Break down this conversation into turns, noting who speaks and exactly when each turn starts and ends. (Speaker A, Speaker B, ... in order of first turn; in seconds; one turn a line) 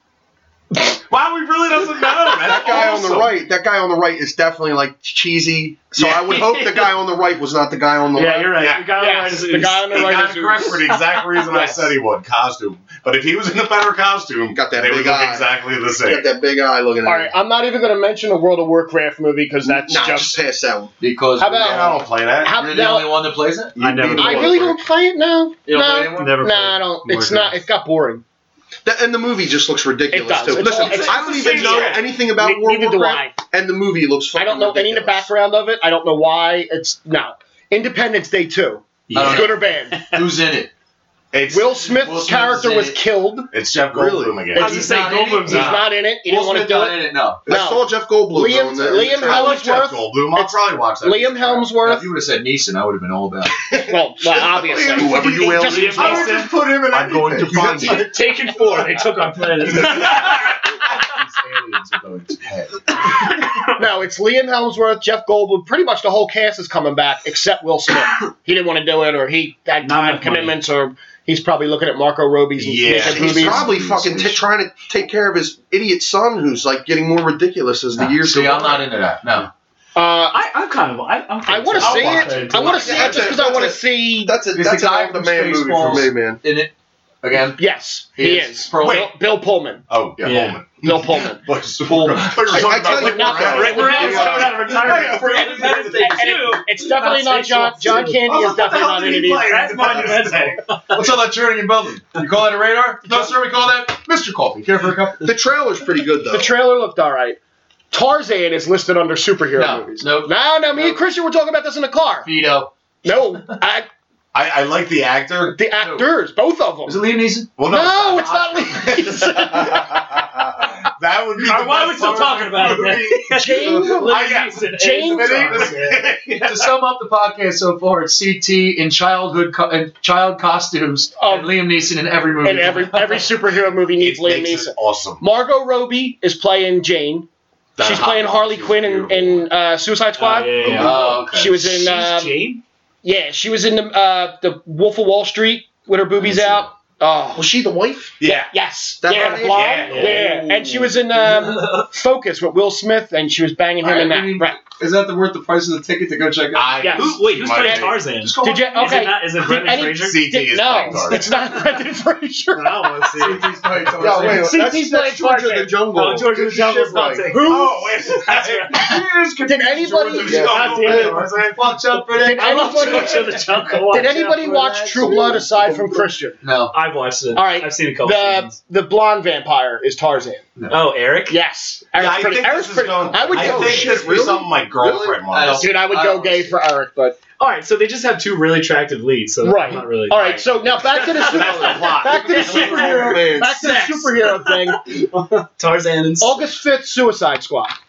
Speaker A: 1.1-3.3
Speaker B: 2.3-8.5
Speaker A: 6.0-6.2
Speaker C: 6.2-6.9
Speaker C: 8.2-10.1
Speaker A: 8.6-8.8
Speaker D: 8.8-10.8
Speaker A: 9.9-16.3
Speaker C: 10.9-11.4
Speaker B: 14.5-17.3
Speaker D: 17.0-20.4
Speaker B: 19.6-20.9
Speaker E: 21.0-22.0
Speaker D: 21.4-23.3
Speaker A: 21.6-22.6
Speaker E: 22.5-24.5
Speaker C: 23.8-24.7
Speaker B: 23.8-24.7
Speaker D: 24.2-28.2
Speaker E: 25.7-26.4
Speaker C: 26.1-27.6
Speaker B: 28.9-35.3
Speaker D: 30.1-33.4
Speaker C: 30.6-32.0
Speaker A: 31.0-32.0
Speaker D: 34.4-40.0
Speaker C: 39.1-40.2
Speaker E: 39.1-40.7
Speaker A: 41.3-41.8
Speaker D: 41.5-43.5
Speaker E: 41.8-43.0
Speaker A: 43.5-44.8
Speaker E: 44.0-47.4
Speaker C: 44.5-45.8
Speaker D: 45.4-52.1
Speaker B: 47.5-49.6
Speaker A: 48.9-51.7
Speaker E: 51.8-53.6
Speaker A: 53.7-58.2
Speaker D: 53.9-56.3
Speaker B: 54.9-58.1
Speaker C: 55.5-56.6
Speaker E: 56.9-58.0
Speaker C: 57.8-60.6
Speaker A: 59.7-60.4
Speaker E: 59.9-63.3
Speaker D: 63.8-73.7
Speaker C: 69.8-70.6
Speaker A: 72.6-73.7
Speaker B: 73.1-78.9
Speaker E: 73.2-74.5
Speaker E: 77.9-79.5
Speaker D: 80.0-80.4
Speaker C: 80.3-83.2
Speaker D: 81.5-84.3
Speaker E: 81.8-83.3
Speaker B: 82.6-86.4
Speaker E: 84.5-87.6
Speaker D: 87.6-89.8
Speaker E: 88.2-89.1
Speaker A: 88.8-89.1
Speaker A: 89.9-96.4
Speaker C: 90.2-90.6
Speaker D: 90.8-91.4
Speaker E: 91.9-92.3
Speaker B: 92.5-94.8
Speaker D: 92.6-94.5
Speaker C: 93.2-98.2
Speaker E: 94.8-96.0
Speaker D: 95.9-99.5
Speaker A: 98.2-101.0
Speaker C: 99.5-100.9
Speaker E: 100.9-105.3
Speaker B: 105.2-106.5
Speaker D: 106.3-107.4
Speaker D: 107.9-112.3
Speaker E: 109.6-111.0
Speaker E: 112.2-112.7
Speaker D: 113.0-113.9
Speaker A: 114.3-115.6
Speaker D: 115.5-117.0
Speaker E: 115.8-116.1
Speaker E: 116.8-117.5
Speaker A: 117.6-126.7
Speaker D: 117.6-120.0
Speaker C: 121.4-126.1
Speaker D: 123.3-125.7
Speaker E: 126.3-133.3
Speaker D: 131.2-131.7
Speaker D: 132.4-137.3
Speaker A: 134.0-135.2
Speaker A: 137.8-139.5
Speaker D: 137.8-142.4
Speaker C: 140.2-142.6
Speaker E: 140.8-141.6
Speaker D: 143.0-147.5
Speaker A: 146.3-146.6
Speaker B: 147.3-148.2
Speaker A: 148.2-148.5
Speaker D: 148.2-154.6
Speaker B: 149.0-151.0
Speaker A: 149.4-150.3
Speaker C: 151.2-151.9
Speaker E: 153.8-156.9
Speaker A: 156.5-158.0
Speaker D: 156.8-163.1
Speaker C: 156.9-160.2
Speaker E: 158.2-159.0
Speaker A: 160.0-161.3
Speaker C: 160.9-161.8
Speaker C: 162.5-163.5
Speaker E: 163.2-164.6
Speaker B: 164.0-167.3
Speaker D: 164.0-165.8
Speaker C: 165.9-169.1
Speaker D: 167.3-167.7
Speaker A: 167.3-171.8
Speaker D: 169.4-170.5
Speaker B: 170.2-171.2
Speaker C: 170.2-171.4
Speaker E: 170.9-175.1
Speaker C: 172.2-175.1
Speaker D: 172.2-173.3
Speaker D: 173.9-176.4
Speaker B: 175.0-176.1
Speaker E: 176.4-176.8
Speaker C: 176.7-178.5
Speaker D: 177.3-180.5
Speaker E: 180.6-180.8
Speaker C: 180.7-181.4
Speaker D: 181.3-184.2
Speaker A: 182.0-185.7
Speaker B: 183.3-185.2
Speaker E: 183.4-183.7
Speaker E: 185.2-186.5
Speaker D: 185.6-187.2
Speaker C: 187.4-190.2
Speaker D: 189.4-194.8
Speaker A: 190.1-192.4
Speaker C: 190.8-196.4
Speaker B: 192.1-193.6
Speaker D: 196.2-197.7